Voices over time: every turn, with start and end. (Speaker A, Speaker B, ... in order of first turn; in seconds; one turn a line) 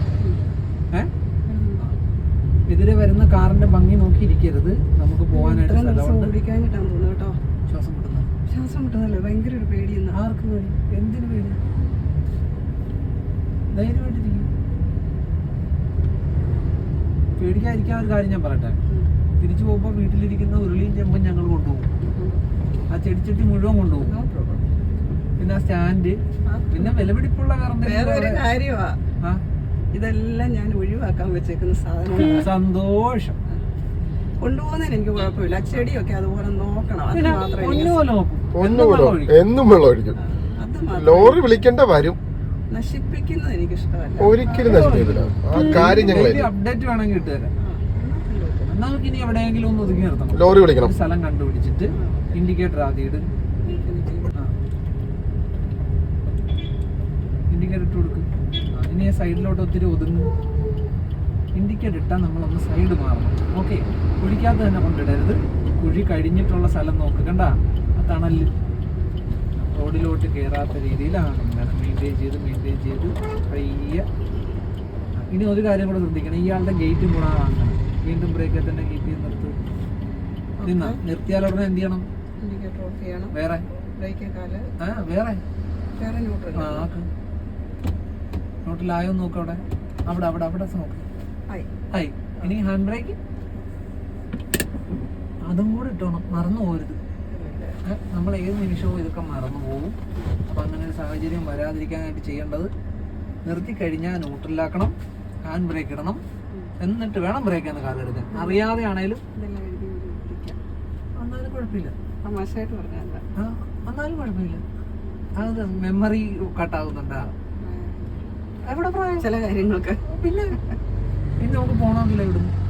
Speaker A: 1.5-1.8
Speaker B: 2.7-6.3
Speaker A: 5.3-7.4
Speaker B: 7.7-8.3
Speaker A: 8.5-10.2
Speaker B: 10.1-11.6
Speaker B: 13.7-14.5
Speaker B: 17.4-18.8
Speaker B: 19.4-21.9
Speaker A: 22.0-22.4
Speaker B: 22.9-24.1
Speaker A: 23.9-24.6
Speaker B: 25.4-26.2
Speaker A: 26.5-27.1
Speaker B: 26.7-28.4
Speaker A: 27.8-29.0
Speaker A: 29.9-32.5
Speaker B: 32.4-33.4
Speaker A: 34.4-38.0
Speaker B: 37.1-39.4
Speaker C: 38.5-40.2
Speaker A: 40.2-41.4
Speaker C: 40.9-42.2
Speaker A: 42.7-44.9
Speaker C: 44.2-46.5
Speaker B: 44.5-47.5
Speaker A: 47.6-48.8
Speaker B: 48.7-53.3
Speaker C: 50.4-50.9
Speaker A: 51.9-52.4
Speaker A: 53.6-54.3
Speaker B: 57.5-60.3
Speaker B: 61.5-68.5
Speaker B: 69.6-74.1
Speaker B: 75.2-79.5
Speaker A: 80.6-81.0
Speaker B: 80.6-82.1
Speaker A: 82.4-83.3
Speaker B: 83.3-83.6
Speaker A: 84.0-84.7
Speaker B: 84.8-85.4
Speaker A: 86.0-86.9
Speaker B: 86.6-87.1
Speaker B: 88.7-91.0
Speaker B: 91.9-93.2
Speaker B: 95.5-97.0
Speaker A: 97.3-97.8
Speaker B: 97.9-100.0
Speaker B: 100.5-102.7
Speaker B: 103.5-104.9
Speaker B: 105.5-106.2
Speaker B: 106.8-109.2
Speaker A: 108.3-108.8
Speaker A: 109.3-110.6
Speaker B: 111.2-112.0
Speaker A: 112.2-113.2
Speaker B: 113.4-114.6
Speaker B: 115.4-117.3
Speaker A: 117.6-118.2
Speaker B: 118.7-119.3
Speaker A: 119.2-120.0
Speaker B: 120.1-120.6
Speaker B: 121.4-122.5